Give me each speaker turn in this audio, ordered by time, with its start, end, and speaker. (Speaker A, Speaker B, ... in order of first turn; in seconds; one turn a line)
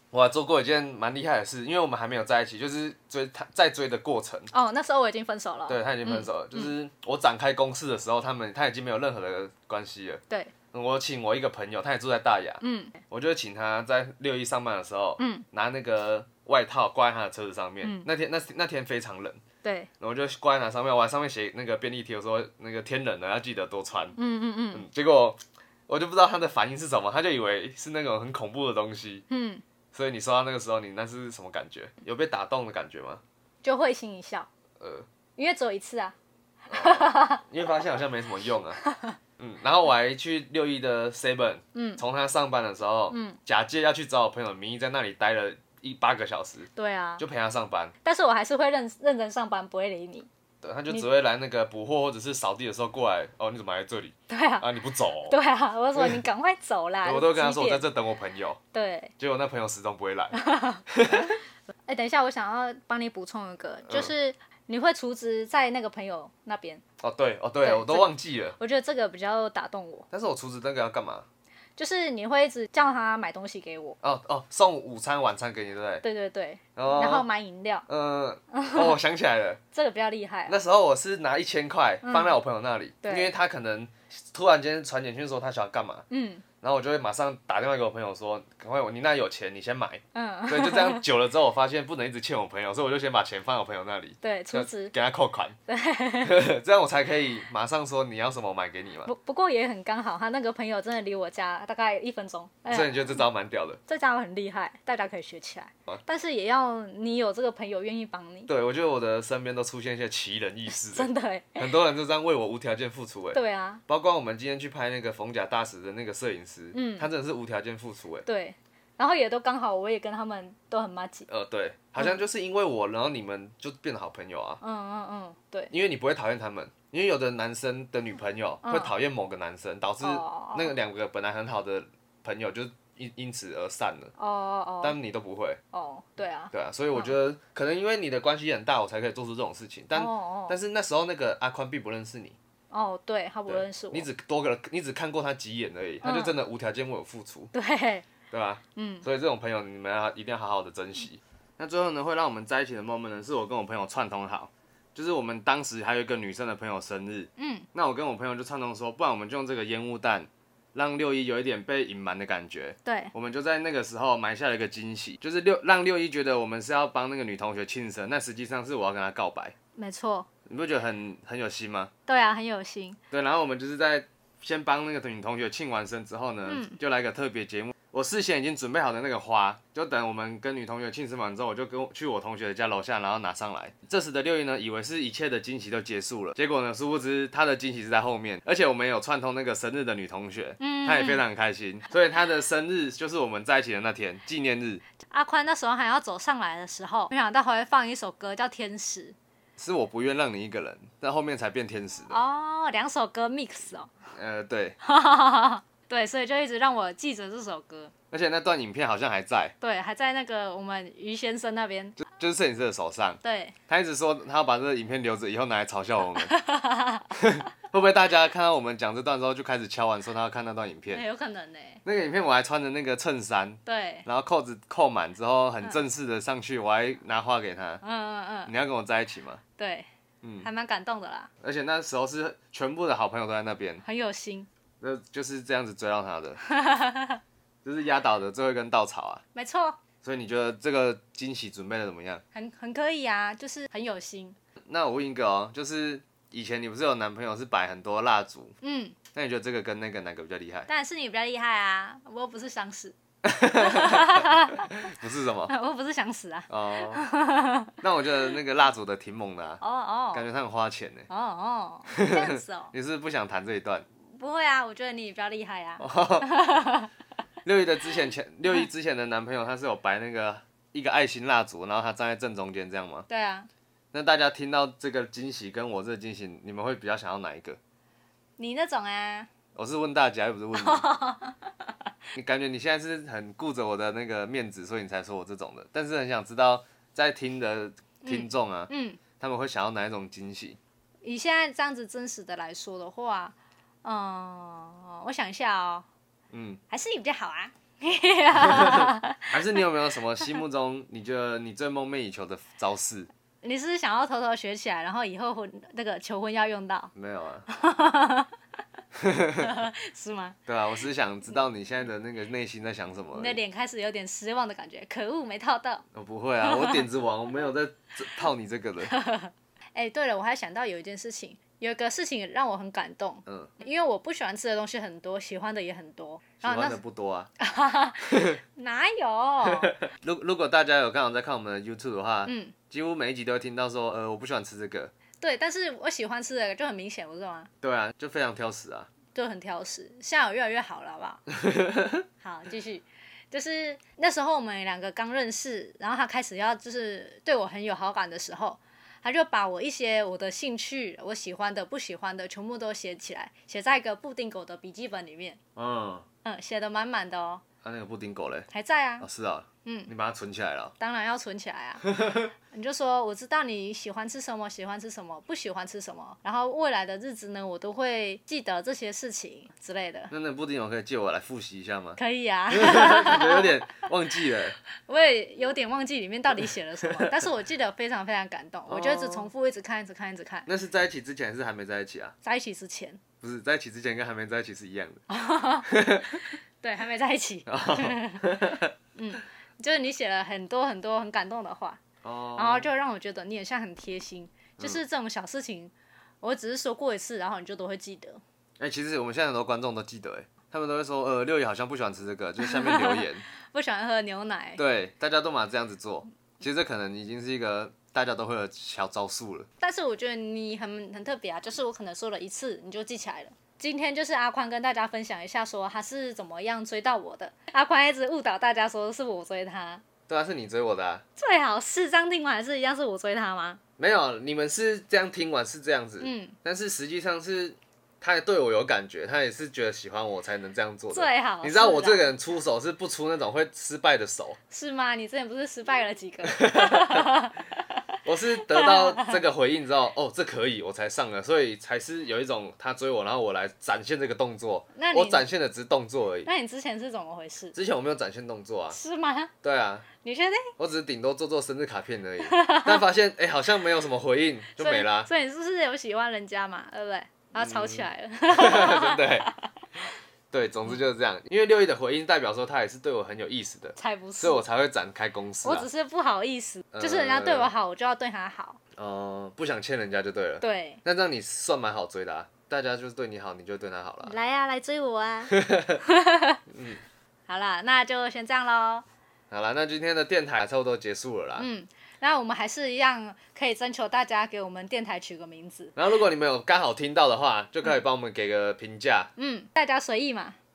Speaker A: 0.1-4.5
Speaker B: 4.5-6.7
Speaker A: 5.7-10.2
Speaker A: 10.7-19.4
Speaker B: 12.6-13.0
Speaker B: 15.2-15.4
Speaker B: 17.8-18.1
Speaker B: 19.6-19.9
Speaker A: 20.0-24.2
Speaker B: 24.1-24.9
Speaker A: 24.7-29.2
Speaker B: 29.3-29.6
Speaker A: 29.9-33.2
Speaker B: 33.6-34.5
Speaker A: 34.8-35.1
Speaker B: 35.4-36.1
Speaker A: 36.7-38.8
Speaker B: 36.7-37.4
Speaker B: 38.8-39.1
Speaker A: 39.4-46.7
Speaker B: 41.7-42.0
Speaker B: 43.1-43.4
Speaker B: 46.7-47.2
Speaker A: 47.2-47.9
Speaker B: 48.0-50.3
Speaker A: 50.6-55.4
Speaker B: 54.3-54.7
Speaker B: 55.2-57.9
Speaker A: 55.9-56.2
Speaker A: 57.0-58.6
Speaker B: 58.7-59.1
Speaker A: 59.2-61.3
Speaker B: 60.3-61.3
Speaker B: 61.9-66.8
Speaker A: 67.0-68.6
Speaker B: 67.6-70.1
Speaker A: 70.1-71.2
Speaker B: 71.8-74.0
Speaker A: 74.0-76.0
Speaker B: 76.0-77.8
Speaker A: 76.8-77.3
Speaker A: 77.9-79.6
Speaker B: 78.5-79.0
Speaker B: 79.7-80.6
Speaker A: 80.5-86.0
Speaker B: 82.0-82.4
Speaker B: 83.0-83.3
Speaker B: 86.1-86.4
Speaker A: 86.6-95.5
Speaker B: 90.1-91.0
Speaker B: 94.2-94.9
Speaker B: 95.7-96.4
Speaker A: 96.2-99.1
Speaker B: 99.0-103.2
Speaker A: 102.7-103.8
Speaker B: 103.9-108.5
Speaker A: 108.5-118.2
Speaker B: 110.9-111.7
Speaker B: 113.3-113.8
Speaker B: 116.7-117.1
Speaker B: 118.2-121.3
Speaker A: 121.3-124.6
Speaker B: 124.6-125.7
Speaker A: 125.7-134.1
Speaker B: 128.6-128.9
Speaker B: 130.0-130.7
Speaker B: 134.2-135.0
Speaker A: 134.8-135.6
Speaker B: 135.7-137.1
Speaker A: 136.5-142.3
Speaker B: 139.9-140.6
Speaker B: 142.7-144.1
Speaker A: 143.5-147.5
Speaker B: 146.0-146.4
Speaker B: 147.5-148.1
Speaker A: 148.3-169.5
Speaker B: 148.7-149.1
Speaker B: 157.4-157.7
Speaker B: 162.8-163.1
Speaker B: 169.8-170.3
Speaker A: 170.5-171.9
Speaker B: 172.1-173.0
Speaker A: 173.1-194.8
Speaker B: 176.4-176.8
Speaker B: 190.6-191.2
Speaker B: 195.1-199.2
Speaker A: 199.6-202.2
Speaker B: 202.1-203.9
Speaker A: 204.1-204.8
Speaker B: 204.8-207.9
Speaker A: 208.1-209.5
Speaker B: 209.6-212.0
Speaker A: 212.1-216.3
Speaker B: 213.2-213.5
Speaker B: 216.2-217.1
Speaker A: 217.1-221.0
Speaker B: 220.9-221.8
Speaker A: 221.8-227.8
Speaker B: 223.7-224.1
Speaker B: 227.8-228.5
Speaker A: 228.4-229.4
Speaker B: 229.6-229.9
Speaker A: 230.2-230.5
Speaker B: 230.4-231.3
Speaker A: 231.4-233.8
Speaker B: 233.8-234.5
Speaker A: 234.8-236.4
Speaker B: 236.4-237.2
Speaker A: 237.6-239.2
Speaker B: 239.3-239.8
Speaker A: 240.0-242.2
Speaker B: 242.3-244.3
Speaker A: 244.7-248.5
Speaker B: 248.6-249.0
Speaker A: 249.1-250.7
Speaker B: 250.7-252.9
Speaker A: 253.2-255.5
Speaker B: 253.5-254.9
Speaker B: 255.4-257.7
Speaker A: 256.5-257.0
Speaker A: 257.8-259.6
Speaker B: 259.6-260.3
Speaker A: 260.1-261.1
Speaker B: 261.1-262.7
Speaker A: 261.9-263.9
Speaker B: 264.1-266.9
Speaker A: 265.8-266.3
Speaker A: 267.4-273.1
Speaker B: 273.1-273.5
Speaker A: 273.9-277.6
Speaker B: 278.4-279.3
Speaker A: 279.5-280.9
Speaker B: 280.5-281.5
Speaker A: 282.1-290.6
Speaker B: 288.0-289.0
Speaker B: 291.0-295.9
Speaker A: 296.3-296.6
Speaker B: 296.7-299.4
Speaker A: 298.5-303.1
Speaker B: 303.4-306.9
Speaker A: 306.9-307.5
Speaker B: 307.5-308.3
Speaker A: 309.0-309.5
Speaker B: 309.4-310.4
Speaker A: 310.5-313.4
Speaker B: 313.1-315.8
Speaker A: 315.9-318.9
Speaker B: 316.4-316.9
Speaker B: 318.9-326.8
Speaker A: 323.3-323.5
Speaker A: 326.4-327.3
Speaker B: 327.4-329.7
Speaker A: 328.1-328.4
Speaker A: 329.4-334.9
Speaker B: 332.2-332.5
Speaker B: 335.2-337.5
Speaker A: 337.6-338.9
Speaker B: 339.1-341.2
Speaker A: 341.4-342.0
Speaker B: 342.2-355.4
Speaker A: 355.6-356.1
Speaker B: 356.2-357.4
Speaker A: 357.6-358.5
Speaker B: 358.5-359.1
Speaker A: 359.0-360.7
Speaker B: 359.6-359.9
Speaker B: 360.8-370.1
Speaker A: 370.1-372.0
Speaker B: 372.0-373.9
Speaker A: 372.5-374.6
Speaker B: 374.9-380.5
Speaker A: 378.7-379.3
Speaker A: 380.5-382.1
Speaker B: 382.2-383.0
Speaker A: 383.2-385.0
Speaker B: 385.1-391.8
Speaker A: 385.6-386.1
Speaker A: 387.5-388.7
Speaker A: 392.0-392.7
Speaker B: 392.4-398.2
Speaker A: 398.6-403.2
Speaker B: 402.4-404.6
Speaker A: 404.6-409.5
Speaker B: 409.6-419.8
Speaker A: 420.1-421.0
Speaker B: 421.2-423.6
Speaker A: 423.8-434.4
Speaker B: 426.0-426.4
Speaker B: 430.9-432.1
Speaker B: 434.5-437.4
Speaker A: 436.5-436.9
Speaker A: 438.0-446.3
Speaker B: 438.5-439.2
Speaker B: 444.7-445.3
Speaker B: 446.2-447.5
Speaker A: 447.5-448.8
Speaker B: 448.7-449.3
Speaker A: 449.4-449.9
Speaker B: 450.0-450.5
Speaker A: 450.6-455.1
Speaker B: 452.2-452.8
Speaker B: 454.6-459.4
Speaker A: 457.4-459.3
Speaker A: 460.3-465.7
Speaker B: 463.8-464.4
Speaker B: 465.4-468.6
Speaker A: 466.7-467.5
Speaker A: 468.8-474.1
Speaker B: 470.4-470.8
Speaker B: 474.0-476.4
Speaker A: 475.3-475.8
Speaker A: 476.5-476.8
Speaker B: 477.3-478.8
Speaker A: 479.3-481.5
Speaker B: 481.4-485.7
Speaker A: 485.8-489.1
Speaker B: 489.2-490.4